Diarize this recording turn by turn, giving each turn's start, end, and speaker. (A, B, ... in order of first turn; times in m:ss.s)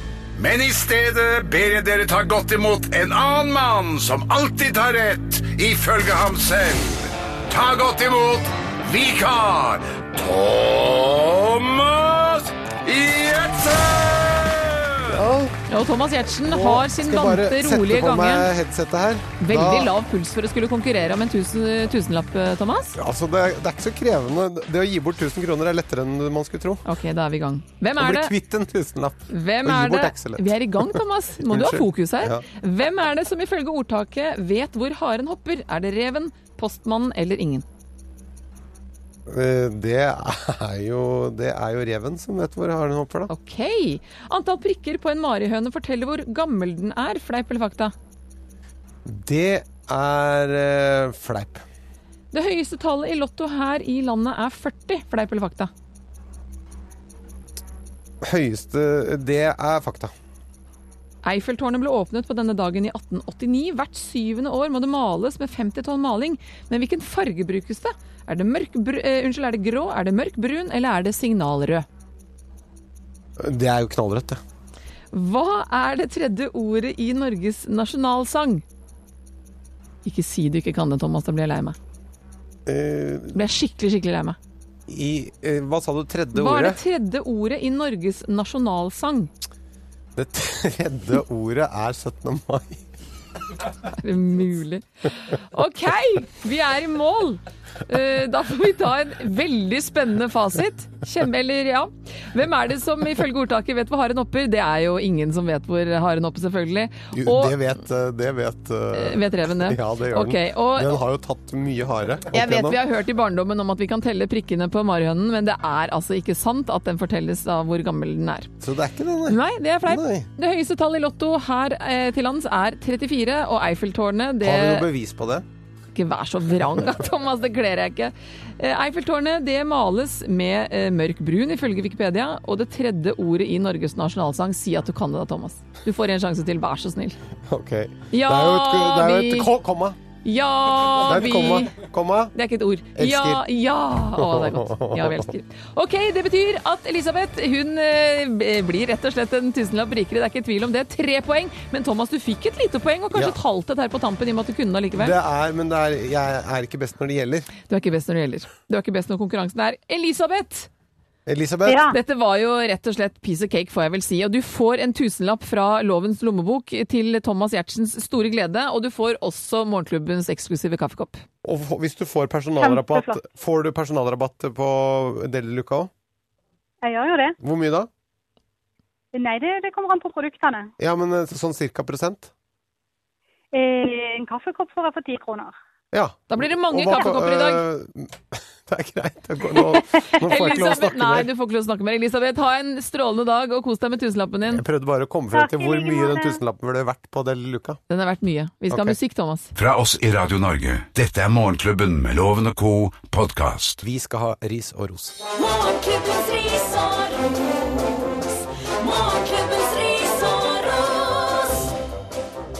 0:00.4-0:15.2 A
0:15.1-0:15.6 B
0:15.7-0:18.5 C
0:16.5-0:19.9 B
0:19.4-0:23.0 C
0:23.0-0:26.8 B
0:26.8-0:28.3 C
0:28.0-0:32.4 B
0:29.3-0:37.6 C
0:39.3-0:43.3 B
0:43.3-0:47.9 C
0:49.0-0:51.6 B
0:52.3-0:55.7 C
0:58.2-1:00.1 B
1:01.2-1:11.8 C
1:13.4-1:14.4 B
1:15.1-1:18.6 C
1:20.0-1:21.8 C
1:22.6-1:23.4 B
1:23.3-1:24.4 C
1:24.9-1:26.8 B
1:26.3-1:29.3 C
1:30.2-1:32.8 B
1:33.9-1:47.6 C
1:47.1-1:52.8 B
1:48.9-1:51.0 C
1:52.3-1:58.5 C
1:58.6-2:00.3 B
1:59.3-2:04.9 C
2:04.4-2:05.4 B
2:05.9-2:17.2 C
2:17.5-2:20.0 B
2:18.1-2:19.5 C
2:20.2-2:21.8 C
2:21.0-2:22.3 B
2:22.3-2:35.2 C
2:22.9-2:23.4 B
2:24.2-2:25.3 B
2:35.0-2:37.5 B
2:37.7-2:40.7 C
2:41.2-2:41.9 B
2:41.6-2:42.0 D
2:41.9-2:51.2 C
2:51.4-2:55.9 B
2:52.6-2:53.2 D
2:56.8-2:57.4 D
2:57.4-2:57.9 B
2:59.1-3:00.7 D
3:00.8-3:02.3 B
3:03.5-3:05.5 D
3:05.9-3:11.3 B
3:06.3-3:07.6 C
3:10.2-3:14.6 C
3:14.5-3:17.8 B
3:15.3-3:16.4 D
3:17.9-3:19.5 C
3:18.7-3:19.0 B
3:19.5-3:23.8 A
3:23.8-3:25.2 B
3:25.3-3:31.7 E